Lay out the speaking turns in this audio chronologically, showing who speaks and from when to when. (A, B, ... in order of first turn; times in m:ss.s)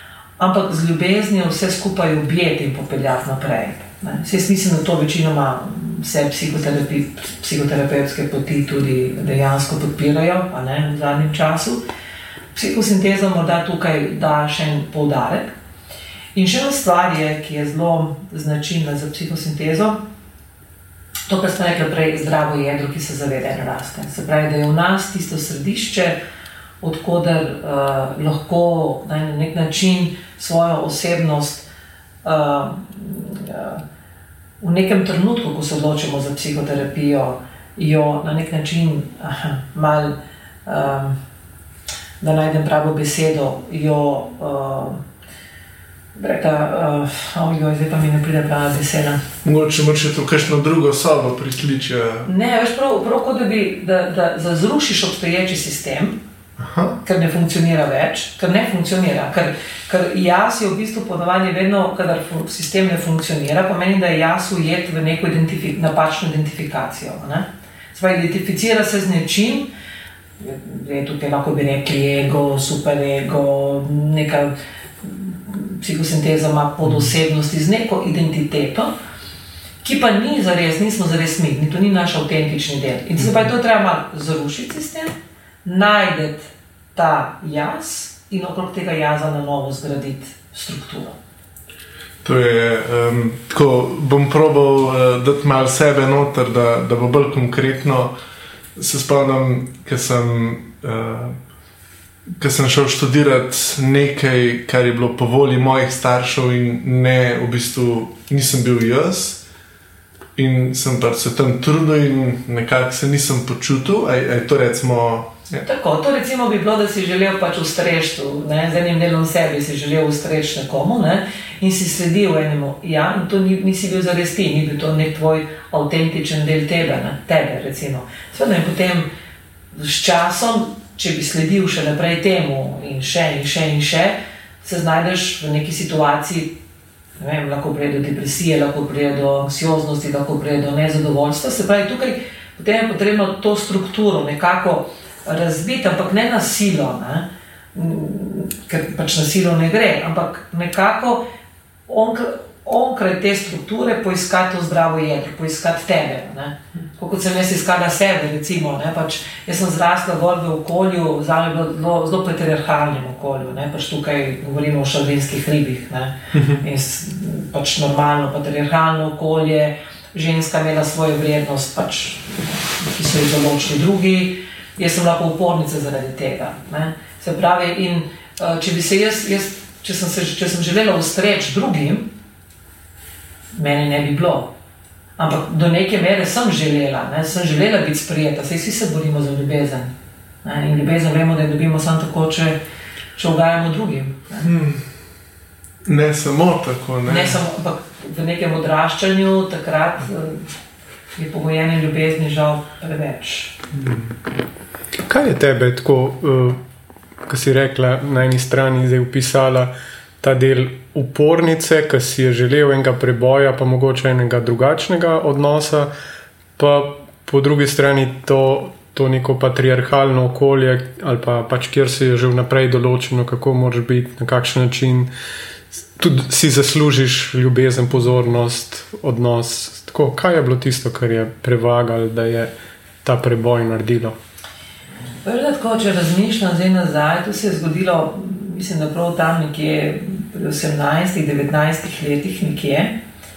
0:00.4-0:11.8 A
0:12.5-0:15.5 A
0:16.3-0:20.0 A
0:21.3-0:26.2 A
0:26.8-0:31.6 A
0:32.2-0:33.8 A
0:34.6-0:41.2 A
0:42.2-0:45.0 A
0:46.1-0:49.2 A
0:49.4-0:52.3 B
0:52.2-0:56.2 A
0:56.6-0:57.0 B
0:57.0-1:09.7 A
1:10.4-1:18.9 A
1:19.8-1:31.2 A
1:32.2-1:38.1 B
1:38.8-1:41.4 B
1:42.4-1:49.4 B
1:50.4-1:55.6 B
1:55.6-2:09.1 A
2:09.7-2:16.5 A
2:17.2-2:31.2 A
2:31.9-3:02.1 A
3:03.5-3:04.5 A
3:05.2-3:09.9 A
3:10.4-3:12.6 A
3:13.2-3:14.5 A
3:14.4-3:14.8 B
3:15.8-3:17.4 B
3:17.0-3:20.4 A
3:21.2-3:23.6 A
3:25.0-3:26.6 C
3:27.3-3:35.9 C
3:36.6-3:45.1 C
3:46.0-3:52.5 C
3:53.0-3:54.2 C
3:55.2-4:03.0 A